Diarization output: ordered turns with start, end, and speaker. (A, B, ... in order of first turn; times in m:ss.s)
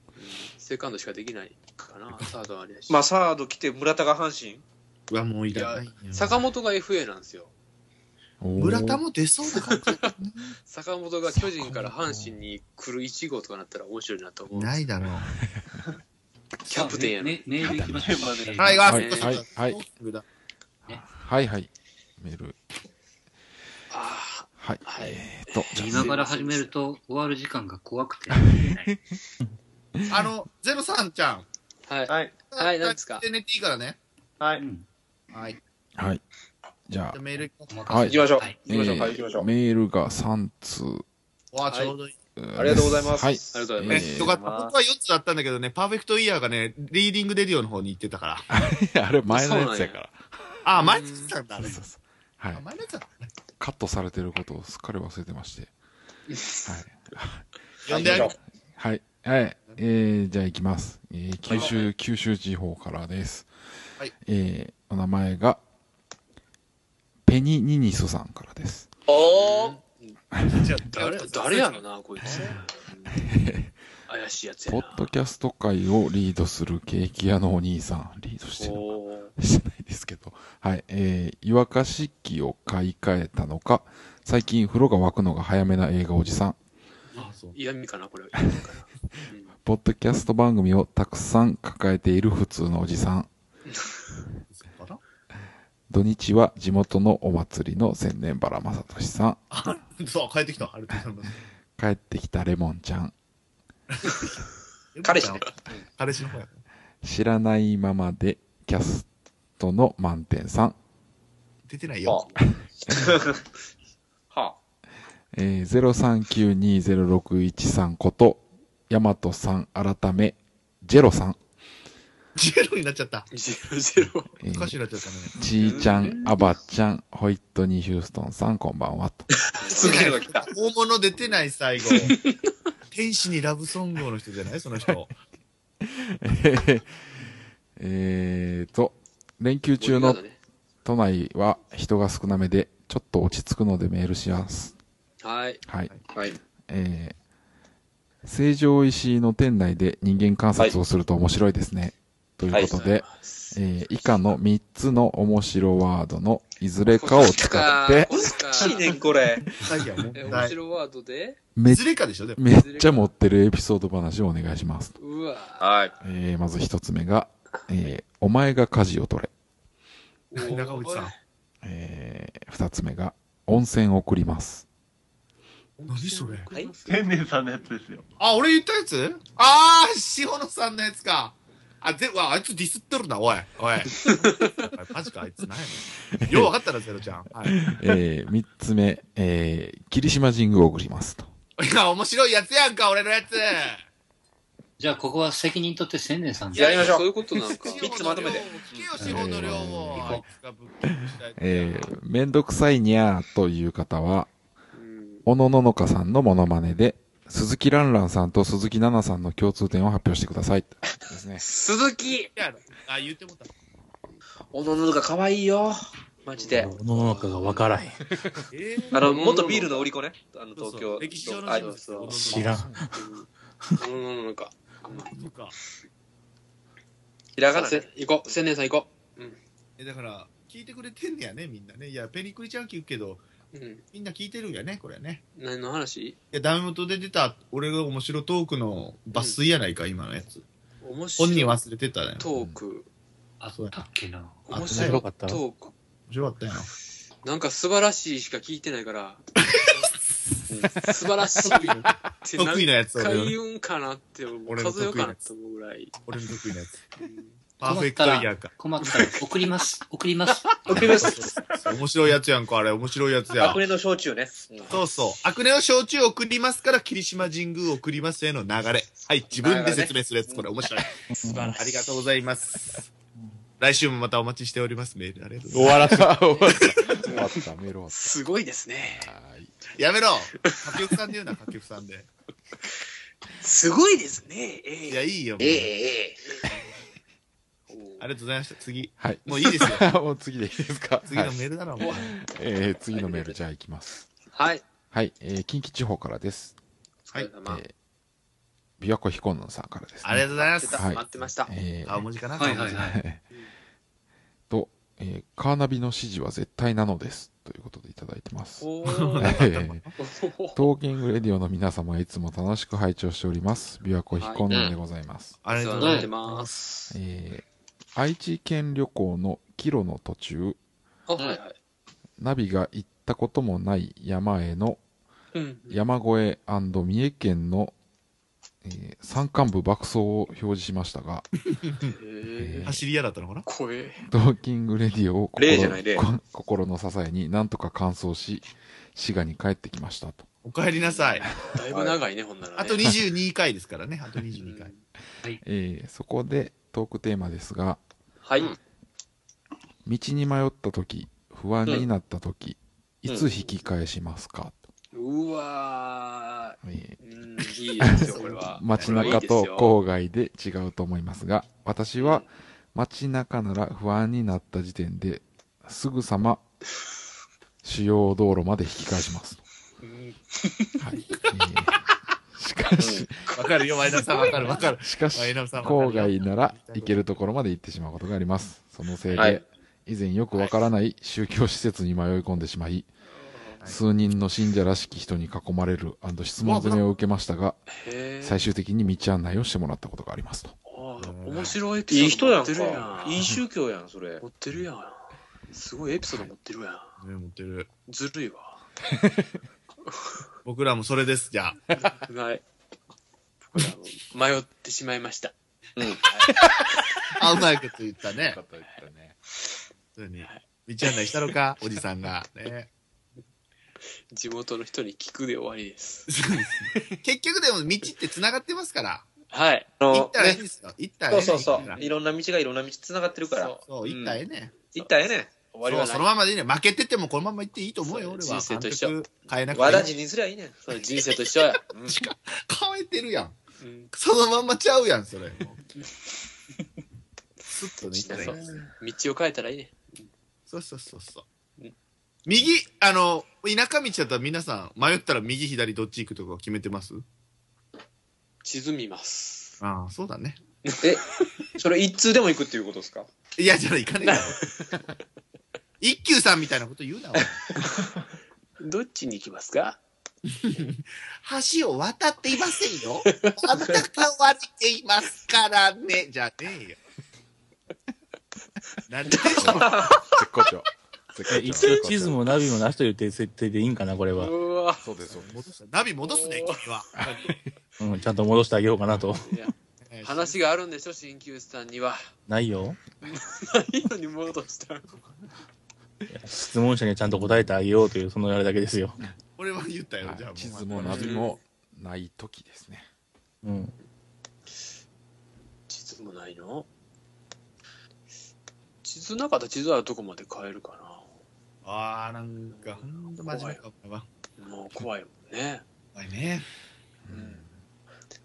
0:00.2-0:03.0 A
0:02.9-0:04.6 B
0:05.1-0:06.4 C
0:05.5-0:07.5 A
0:08.4-0:09.0 D
0:08.6-0:10.6 C
0:09.5-0:10.1 A
0:10.7-0:14.8 A
0:11.6-0:12.3 D
0:14.5-0:15.3 C
0:16.7-0:17.4 A
0:16.7-0:18.9 E
0:17.6-0:18.3 D
0:17.9-0:18.9 F
0:18.6-0:20.2 C
0:18.8-0:19.8 D
0:18.9-0:19.4 A
0:20.9-0:22.6 D
0:23.9-0:26.7 A
0:24.6-0:26.2 D
0:25.8-0:28.9 E
0:28.3-0:29.0 D
0:30.0-0:30.3 D
0:30.1-0:31.5 C
0:31.9-0:33.2 A
0:32.1-0:32.3 F
0:32.5-0:34.0 C
0:34.6-0:34.9 E
0:35.3-0:35.6 C
0:36.9-0:37.2 D
0:37.1-0:37.7 C
0:37.7-0:38.6 E
0:37.9-0:41.0 D
0:38.0-0:39.5 B
0:41.5-0:42.2 C
0:42.4-0:44.4 D
0:42.6-0:43.6 B
0:43.5-0:44.2 A
0:43.9-0:48.5 C
0:44.1-0:44.8 F
0:48.5-0:50.7 D
0:49.3-0:50.0 A
0:50.6-0:51.8 C
0:50.8-0:51.3 A
0:51.6-0:52.6 D
0:52.5-0:53.3 C
0:53.6-0:55.7 D
0:56.3-0:56.8 A
0:56.6-1:03.5 D
0:57.9-0:58.4 C
0:57.9-0:58.4 B
1:01.5-1:01.9 A
1:04.2-1:05.6 D
1:07.3-1:08.9 D
1:09.1-1:09.8 B
1:09.2-1:10.2 A
1:10.4-1:10.7 D
1:10.5-1:12.6 C
1:10.8-1:13.2 A
1:13.2-1:13.7 D
1:14.1-1:15.1 A
1:14.7-1:26.6 D
1:18.6-1:19.3 A
1:27.1-1:29.5 A
1:27.2-1:27.6 C
1:29.6-1:33.3 D
1:33.7-1:34.0 A
1:34.5-1:35.0 C
1:35.9-1:39.4 D
1:39.5-1:41.5 C
1:41.8-1:43.1 D
1:43.9-1:44.4 C
1:45.0-1:46.6 C
1:45.0-1:45.8 B
1:47.0-1:49.1 D
1:49.6-1:50.8 D
1:51.7-1:52.3 C
1:52.1-1:53.4 B
1:54.3-1:54.6 B
1:55.3-2:01.4 D
2:02.4-2:03.3 C
2:03.3-2:04.3 A
2:04.4-2:04.8 D
2:04.5-2:05.4 C
2:05.4-2:09.3 D
2:05.6-2:06.2 B
2:05.7-2:06.4 A
2:09.6-2:10.2 A
2:09.6-2:10.5 B
2:09.8-2:12.2 C
2:12.0-2:12.4 A
2:12.9-2:15.1 C
2:15.8-2:16.9 D
2:17.8-2:20.2 D
2:19.8-2:20.4 A
2:20.8-2:24.8 D
2:25.2-2:25.6 A
2:25.7-2:25.9 D
2:26.1-2:26.4 B
2:26.7-2:27.2 D
2:28.2-2:38.2 D
2:32.5-2:34.3 A
2:36.9-2:38.9 A
2:38.1-2:39.5 B
2:39.6-2:40.6 C
2:40.1-2:41.4 A
2:41.6-2:44.9 D
2:41.7-2:42.4 C
2:42.5-2:43.1 A
2:45.0-2:45.7 A
2:45.6-2:45.9 B
2:46.0-2:49.3 D
2:50.3-2:51.2 A
2:50.4-2:51.1 C
2:51.6-2:54.6 D
2:55.8-2:57.0 A
2:55.9-2:56.5 C
2:56.5-2:56.8 B
2:56.9-2:58.1 F
2:58.2-3:07.7 C
3:04.0-3:04.7 A
3:06.3-3:06.5 D
3:07.6-3:11.3 D
3:11.6-3:13.9 C
3:14.8-3:16.9 E
3:16.5-3:17.1 B
3:16.6-3:18.4 A
3:17.6-3:22.0 C
3:17.6-3:18.9 B
3:19.0-3:19.2 E
3:19.0-3:20.3 D
3:21.4-3:24.3 D
3:24.7-3:25.3 A
3:25.2-3:31.4 D
3:31.4-3:32.3 A
3:32.4-3:33.5 C
3:34.5-3:36.7 B
3:36.4-3:37.6 A
3:36.5-3:38.0 G
3:38.5-3:39.2 C
3:38.9-3:42.1 B
3:38.9-3:39.9 A
3:40.6-3:42.6 C
3:41.5-3:43.3 A
3:42.3-3:42.9 G
3:42.5-3:42.8 D
3:43.8-3:45.2 A
3:45.0-3:45.6 C
3:47.4-3:47.9 B
3:47.5-3:49.4 A
3:49.8-3:53.2 C
3:53.5-3:53.8 A
3:53.9-3:55.2 C
3:55.4-3:56.2 A
3:56.3-4:00.4 C
4:00.8-4:01.6 A
4:01.2-4:02.2 C
4:02.2-4:02.9 A
4:02.3-4:02.6 D
4:03.4-4:04.4 E
4:04.5-4:05.7 A
4:04.5-4:05.0 C
4:04.6-4:05.4 G
4:06.1-4:06.7 C
4:07.2-4:09.2 A
4:10.8-4:15.9 A
4:11.4-4:13.4 C
4:14.5-4:15.2 C
4:16.1-4:16.8 C
4:17.0-4:17.4 A
4:17.6-4:18.5 C
4:17.6-4:21.1 E
4:20.6-4:21.2 B
4:20.7-4:23.6 C
4:23.4-4:24.8 B
4:24.7-4:30.9 C
4:29.3-4:30.4 B
4:31.1-4:31.7 G
4:31.3-4:31.6 A
4:31.6-4:32.9 C
4:33.6-4:37.2 C
4:35.5-4:36.1 G
4:35.6-4:38.2 D
4:36.8-4:39.1 A
4:39.0-4:39.5 D
4:39.7-4:42.1 C
4:40.4-4:41.0 A
4:43.4-4:45.0 A
4:44.9-4:45.7 C
4:45.4-4:46.2 B
4:47.7-4:48.0 A
4:48.0-4:49.8 C
4:49.0-4:54.1 D
4:51.1-4:52.1 C
4:51.8-4:52.2 A
4:52.9-4:53.4 A
4:54.3-4:54.6 A
4:54.9-4:56.6 D
4:57.1-4:57.6 A
4:57.4-4:57.7 D
4:58.8-5:03.2 D
5:00.0-5:01.3 C
5:00.4-5:01.5 A
5:01.8-5:02.8 C
5:02.4-5:03.0 E
5:04.5-5:08.7 D
5:08.6-5:09.4 A
5:08.8-5:10.0 C
5:09.2-5:09.8 D
5:10.0-5:10.7 A
5:10.6-5:15.4 D
5:14.2-5:14.5 A
5:14.5-5:14.8 B
5:15.4-5:16.5 C
5:15.5-5:17.0 A
5:16.9-5:20.6 D
5:21.1-5:21.6 A
5:22.2-5:24.8 D
5:25.3-5:25.8 A
5:25.7-5:27.8 D
5:28.6-5:31.3 D
5:31.6-5:31.9 C
5:31.9-5:32.8 A
5:32.4-5:32.8 D
5:32.6-5:33.5 C
5:33.4-5:34.1 A
5:34.1-5:40.3 D
5:35.4-5:36.0 B
5:40.4-5:41.4 C
5:40.9-5:42.9 A
5:41.6-5:42.0 B
5:42.6-5:44.7 C
5:44.4-5:44.8 A
5:45.4-5:47.8 D
5:48.2-5:48.5 A
5:49.8-5:54.7 D
5:54.9-5:59.8 A
5:56.6-5:57.0 D
5:57.8-6:06.4 D
5:57.9-5:59.2 C
6:02.0-6:02.2 A
6:07.6-6:09.4 D
6:09.8-6:10.8 A
6:10.8-6:11.8 D
6:12.4-6:13.3 D
6:12.8-6:13.1 B
6:13.3-6:17.0 C
6:14.0-6:14.6 A
6:14.3-6:22.9 D
6:19.1-6:19.4 B
6:23.6-6:27.6 D
6:26.4-6:26.8 C
6:27.7-6:28.5 A
6:28.2-6:30.6 D
6:30.7-6:33.3 A
6:31.0-6:31.6 C
6:31.9-6:34.2 B
6:34.2-6:37.0 A
6:37.0-6:37.7 C
6:37.9-6:38.6 A
6:38.9-6:39.3 D
6:39.9-6:40.2 A
6:40.4-6:41.6 C
6:41.8-6:42.4 A
6:43.4-6:45.3 A
6:45.8-6:46.0 B
6:45.9-6:47.2 A
6:47.1-6:48.4 C
6:48.2-6:49.2 D
6:50.0-6:52.7 C
6:50.2-6:51.1 A
6:54.1-6:56.1 A
6:56.1-6:59.1 C
6:59.3-6:59.7 A
6:59.8-7:00.4 B
6:59.9-7:01.8 C
7:01.1-7:04.2 B
7:01.4-7:01.9 A
7:03.3-7:04.0 A
7:03.6-7:04.6 C
7:04.7-7:06.1 B
7:05.6-7:05.9 A
7:05.6-7:09.9 C
7:07.8-7:09.0 A
7:09.5-7:10.7 B
7:10.6-7:11.6 A
7:11.6-7:12.0 B
7:11.9-7:13.4 C
7:13.6-7:13.9 A
7:13.9-7:15.6 C
7:17.5-7:18.4 C
7:18.0-7:20.1 A
7:18.0-7:18.6 B
7:20.5-7:21.2 C
7:22.3-7:27.0 C
7:28.4-7:29.6 A
7:29.6-7:30.4 C
7:30.7-7:31.0 A
7:30.8-7:33.1 B
7:33.4-7:34.4 C
7:34.0-7:34.5 A
7:35.8-7:37.4 C
7:38.6-7:39.8 A
7:40.3-7:46.8 C
7:43.1-7:43.8 A
7:48.9-7:49.8 C
7:49.1-7:50.1 A
7:49.5-7:50.0 B
7:50.0-7:52.2 D
7:51.3-7:54.3 G
7:51.6-7:52.1 A
7:54.2-7:54.9 A
7:54.8-7:55.5 D
7:55.1-7:57.4 C
7:56.0-7:56.7 A
7:57.0-7:57.4 D
7:57.8-7:59.4 G
7:59.2-7:59.5 A
7:59.8-8:00.4 C
8:00.0-8:02.1 A
8:02.3-8:02.8 G
8:03.0-8:04.9 A
8:06.1-8:09.0 G
8:09.4-8:11.2 C
8:10.0-8:12.9 D
8:10.8-8:11.4 A
8:13.4-8:13.8 G
8:15.7-8:16.7 A
8:18.8-8:21.1 A
8:21.6-8:24.1 C
8:22.5-8:23.6 A
8:24.4-8:25.6 A
8:26.0-8:26.5 C
8:27.0-8:27.6 D
8:27.1-8:27.4 A